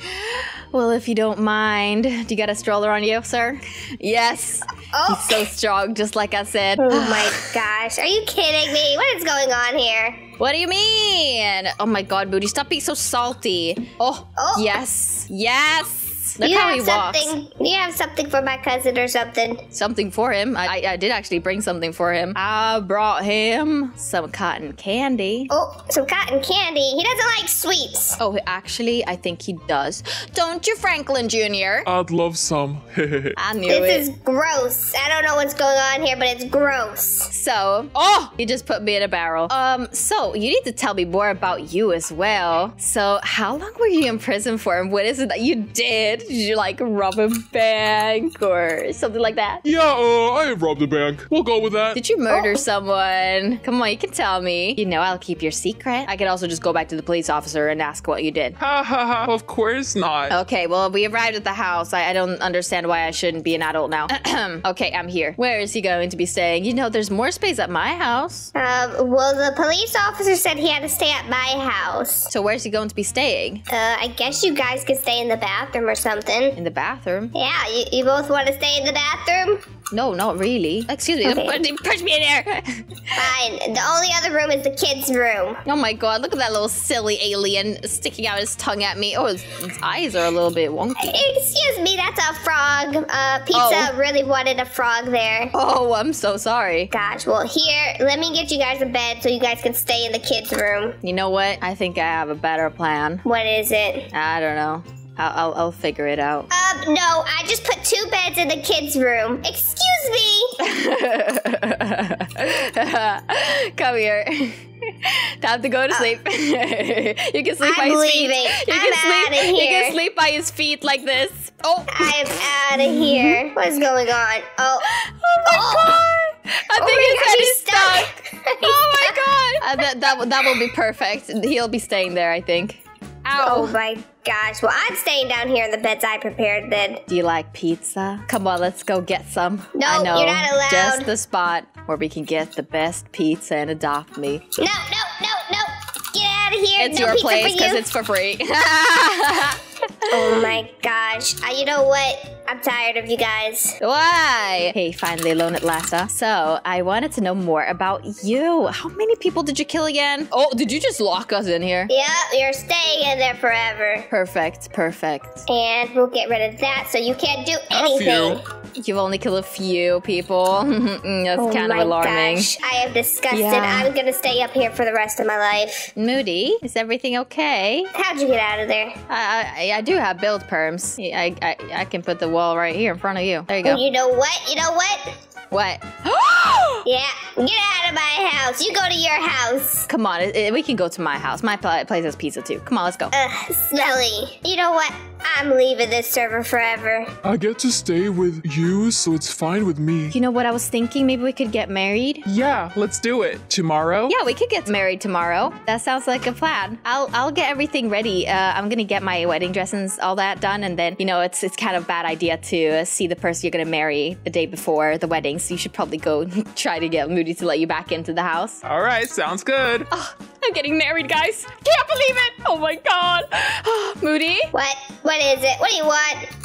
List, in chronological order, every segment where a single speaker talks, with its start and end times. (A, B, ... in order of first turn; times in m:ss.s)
0:00.2-0:07.5 A
0:04.9-0:05.5 B
0:06.8-0:10.2 B
0:10.4-0:17.3 A
0:14.4-0:14.8 B
0:16.4-0:19.6 B
0:19.7-0:25.5 A
0:25.5-0:28.2 B
0:28.2-0:31.9 A
0:31.8-0:33.4 C
0:33.4-0:34.1 A
0:33.7-0:37.3 B
0:37.3-0:49.6 A
0:49.6-0:52.0 C
0:51.9-0:58.6 A
0:52.3-0:52.6 B
0:58.6-1:00.4 C
1:00.3-1:08.5 A
1:08.5-1:12.3 B
1:12.3-1:13.6 A
1:13.7-1:16.6 B
1:16.6-1:17.3 A
1:17.3-1:19.6 B
1:19.9-1:23.1 A
1:21.2-1:21.6 B
1:23.2-1:25.6 B
1:25.6-1:31.2 A
1:31.1-1:35.5 B
1:33.5-1:33.9 A
1:35.5-1:36.9 A
1:36.9-1:41.0 B
1:41.0-1:43.2 A
1:43.2-1:44.1 B
1:44.1-1:46.5 A
1:46.5-1:50.5 B
1:50.6-2:03.4 A
1:57.6-2:00.0 B
2:01.9-2:04.9 B
2:05.0-2:08.1 A
2:05.4-2:06.0 B
2:06.7-2:09.2 B
2:08.6-2:13.7 A
2:10.4-2:10.6 B
2:13.4-2:17.0 B
2:17.1-2:24.4 A
2:19.7-2:21.1 B
2:24.6-2:27.8 B
2:26.8-2:30.5 A
2:30.1-2:33.8 B
2:33.8-2:41.9 A
2:41.9-2:44.1 B
2:44.1-2:45.4 A
2:45.5-2:48.4 B
2:47.7-2:48.4 C
2:48.8-2:52.5 A
2:51.4-2:55.9 B
2:53.3-2:53.9 A
2:56.0-2:57.9 A
2:57.9-2:59.0 B
2:59.1-3:03.8 A
3:03.6-3:05.1 B
3:05.5-3:06.8 A
3:06.8-3:09.9 B
3:09.9-3:13.1 A
3:13.1-3:17.1 B
3:17.2-3:20.1 C
3:20.1-3:22.3 A
3:22.3-3:24.1 C
3:24.1-3:38.6 A
3:38.6-3:39.9 C
3:39.9-3:44.5 A
3:44.5-3:46.3 B